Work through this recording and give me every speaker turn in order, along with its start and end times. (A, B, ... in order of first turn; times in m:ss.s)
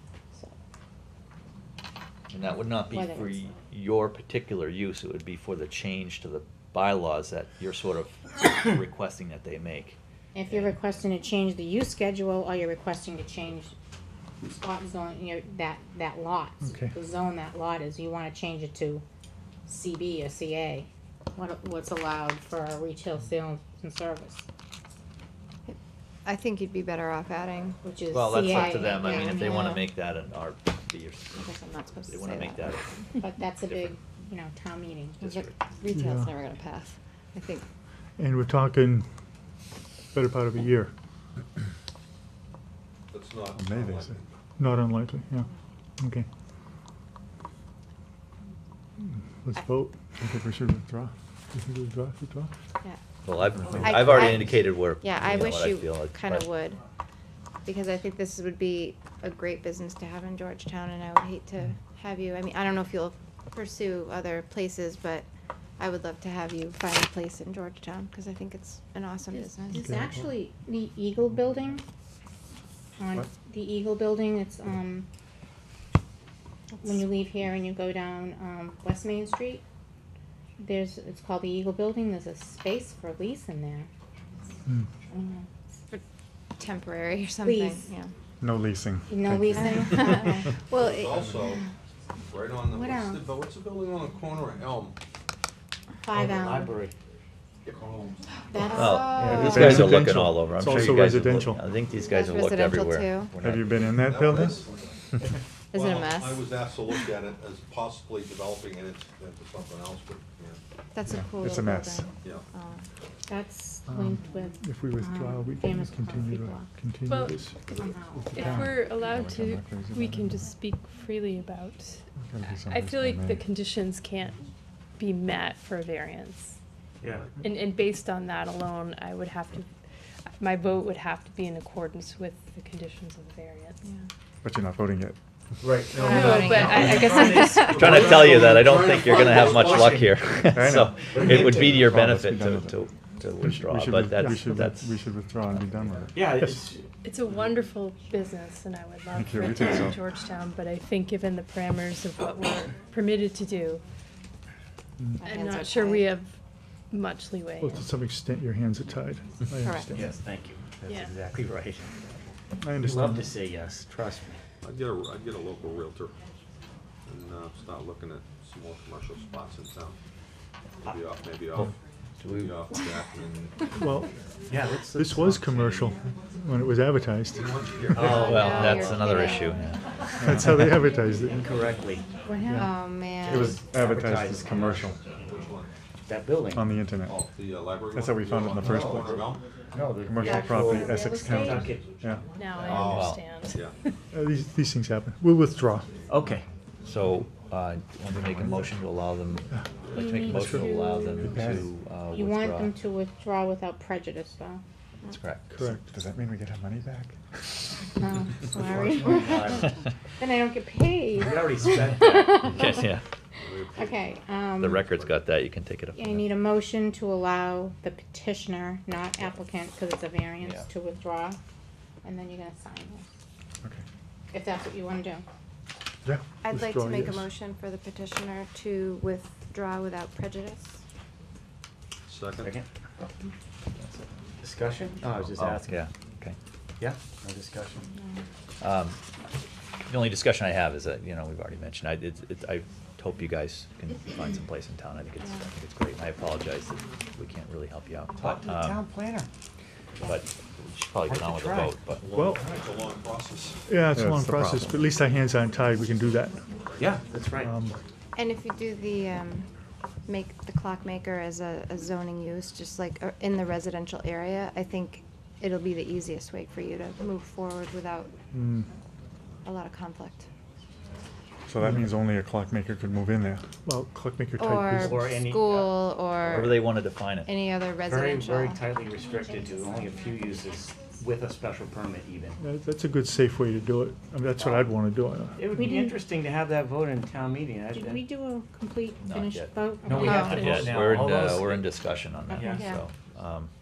0:02.3-0:10.7 A
0:02.8-0:03.4 B
0:10.3-0:13.7 B
0:14.6-0:19.0 B
0:19.6-0:24.5 B
0:25.6-0:27.8 C
0:27.8-0:29.8 B
0:28.1-0:31.5 A
0:28.3-0:29.6 C
0:31.4-0:32.7 C
0:32.1-0:33.0 A
0:33.2-0:35.4 B
0:33.7-0:34.0 A
0:35.2-0:35.5 A
0:35.2-0:37.6 C
0:35.9-0:36.3 D
0:38.2-0:39.0 D
0:40.1-0:40.9 D
0:43.1-0:44.3 E
0:43.6-0:44.1 F
0:44.6-0:45.5 D
0:46.0-0:46.2 D
0:49.4-0:49.9 D
0:50.2-0:51.1 F
0:51.5-0:52.5 D
0:53.2-0:56.6 A
0:53.6-0:54.0 F
0:53.7-0:56.8 C
0:57.6-1:05.2 C
1:05.8-1:10.0 C
1:09.3-1:11.8 B
1:13.0-1:15.1 B
1:16.8-1:19.6 B
1:20.6-1:23.9 B
1:25.1-1:25.5 B
1:26.6-1:28.1 C
1:27.4-1:27.9 B
1:28.4-1:30.1 F
1:29.1-1:30.5 B
1:29.7-1:31.5 C
1:30.7-1:31.6 E
1:32.2-1:35.0 E
1:32.6-1:33.3 B
1:36.0-1:36.8 B
1:36.1-1:36.9 G
1:37.6-1:38.2 E
1:38.5-1:39.7 B
1:38.7-1:39.8 C
1:38.7-1:43.8 A
1:39.2-1:39.5 G
1:39.2-1:41.6 D
1:39.5-1:41.6 F
1:42.0-1:43.3 C
1:43.4-1:44.6 F
1:43.9-1:44.9 E
1:45.7-1:46.5 C
1:45.7-1:50.6 E
1:50.9-1:52.9 C
1:51.1-1:52.1 F
1:52.2-1:52.4 E
1:53.3-1:56.7 B
1:53.9-1:57.6 D
1:57.1-2:04.5 H
1:57.7-1:58.7 B
1:58.3-2:00.4 F
2:02.3-2:03.4 F
2:05.0-2:06.5 H
2:07.0-2:07.3 G
2:07.4-2:09.7 H
2:10.4-2:13.8 H
2:14.4-2:15.2 F
2:15.6-2:20.2 G
2:15.9-2:17.8 C
2:16.0-2:18.0 H
2:17.6-2:26.1 A
2:20.5-2:22.8 F
2:21.1-2:21.8 G
2:23.4-2:26.2 F
2:24.2-2:24.5 D
2:26.1-2:26.8 G
2:27.0-2:33.8 H
2:29.1-2:30.0 F
2:35.2-2:36.1 C
2:35.2-2:36.4 H
2:36.9-2:37.8 H
2:37.6-2:40.1 D
2:39.6-2:40.0 C
2:39.9-2:42.0 G
2:40.9-2:41.1 H
2:42.6-2:43.3 D
2:42.8-2:44.4 G
2:44.6-2:46.2 E
2:47.0-2:50.0 E
2:50.8-2:51.7 E
2:51.5-2:52.7 A
2:52.3-2:53.7 E
2:53.7-2:54.1 D
2:54.5-2:56.0 G
2:54.9-2:57.5 D
2:57.3-2:59.1 E
2:57.9-2:58.8 G
2:58.0-2:59.9 A
2:58.0-2:59.5 C
3:00.2-3:00.7 F
3:00.2-3:01.4 D
3:01.1-3:02.1 G
3:02.2-3:03.6 C
3:02.3-3:02.6 B
3:03.2-3:05.0 G
3:03.3-3:05.0 F
3:05.2-3:05.7 E
3:06.0-3:06.7 G
3:06.5-3:07.2 F
3:07.0-3:09.4 E
3:07.9-3:09.2 F
3:08.6-3:12.0 G
3:10.0-3:12.2 F
3:10.3-3:11.1 C
3:10.6-3:11.8 B
3:12.4-3:13.7 H
3:12.6-3:13.0 G
3:12.6-3:13.8 E
3:12.9-3:13.3 A
3:14.1-3:15.9 D
3:16.1-3:16.4 G
3:16.8-3:22.8 A
3:18.2-3:18.7 F
3:19.9-3:24.6 B
3:20.3-3:20.7 D
3:21.2-3:21.7 F
3:25.1-3:25.5 A
3:25.5-3:25.9 D
3:25.7-3:27.2 F
3:28.0-3:32.9 B
3:28.5-3:29.4 C
3:28.9-3:29.7 G
3:31.2-3:32.7 G
3:32.5-3:33.0 A
3:33.4-3:34.1 E
3:33.7-3:35.0 B
3:34.6-3:36.4 A
3:36.0-3:41.4 B
3:42.0-3:43.1 B
3:44.3-3:45.2 B
3:46.0-3:47.2 D
3:46.4-3:50.8 C
3:52.1-3:52.6 E
3:52.4-3:52.7 G
3:54.4-3:55.8 G
3:55.0-3:56.4 A
3:56.8-3:57.9 G
3:58.0-3:58.2 C
3:58.6-3:59.0 A
3:59.8-4:08.8 A
4:08.1-4:09.3 G
4:10.0-4:12.2 A
4:11.0-4:12.8 G
4:12.1-4:12.4 D
4:12.4-4:13.6 E
4:13.7-4:16.4 D
4:13.9-4:14.5 F
4:14.2-4:14.9 A
4:16.7-4:16.9 E
4:16.8-4:17.6 G
4:17.4-4:17.8 D
4:18.1-4:19.5 C
4:20.0-4:28.1 C
4:28.3-4:28.6 F
4:29.4-4:30.3 C
4:31.5-4:33.5 F
4:33.6-4:35.2 D
4:34.4-4:36.7 C
4:34.8-4:35.8 G
4:36.2-4:37.4 A
4:37.2-4:38.6 C
4:37.8-4:42.4 G
4:42.4-4:45.4 D
4:44.4-4:44.7 G
4:45.4-4:48.1 G
4:45.5-4:46.0 B
4:47.7-4:50.7 B
4:49.0-4:49.7 A
4:49.8-4:51.7 G
4:49.9-4:50.4 C
4:50.3-4:53.5 A
4:52.3-4:52.8 B
4:52.4-4:52.7 G
4:52.5-4:52.8 C